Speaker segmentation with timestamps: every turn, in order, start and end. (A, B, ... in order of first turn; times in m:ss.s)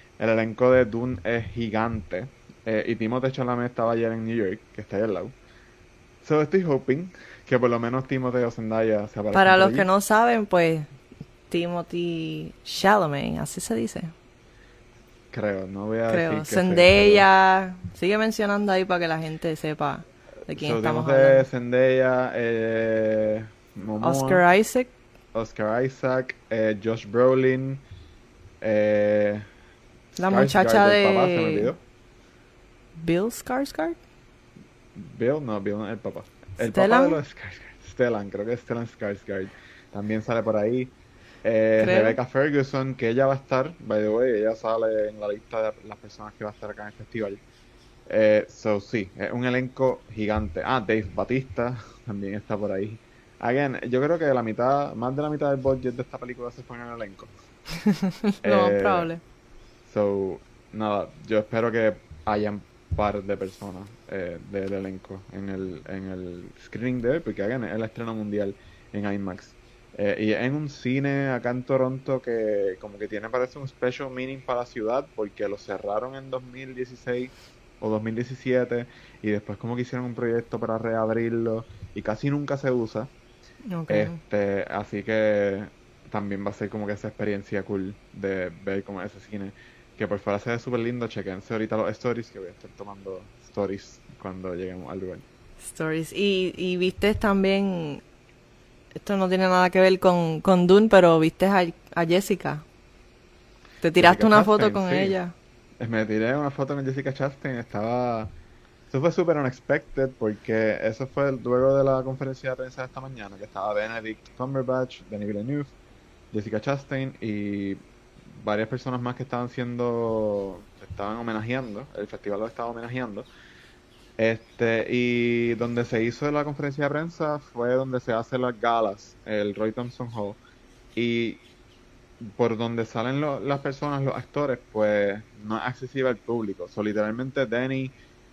0:00.2-0:05.3 A
0:06.2-0:09.9 A
0:09.3-0:10.9 B
0:11.5-0:14.1 B
0:15.3-0:17.2 A
0:16.1-0:21.4 B
0:20.5-0:24.4 A
0:24.0-0:24.9 B
0:25.3-0:27.8 A
0:28.6-0:29.5 A
0:30.1-0:31.8 A
0:30.2-0:31.7 B
0:33.0-0:34.0 B
0:34.9-0:47.4 A
0:36.6-0:37.2 B
0:41.8-0:42.2 B
0:48.1-0:57.3 A
0:57.8-0:59.2 B
0:58.4-0:59.1 A
0:59.8-1:23.1 A
1:23.7-1:24.2 B
1:23.9-1:35.2 A
1:35.6-1:38.0 B
1:39.0-1:42.6 B
1:43.8-1:45.3 B
1:44.0-1:45.2 A
1:45.8-1:48.3 A
1:48.9-1:55.7 A
1:56.3-2:03.3 A
2:04.2-2:10.4 A
2:10.9-2:11.4 A
2:12.2-2:17.9 A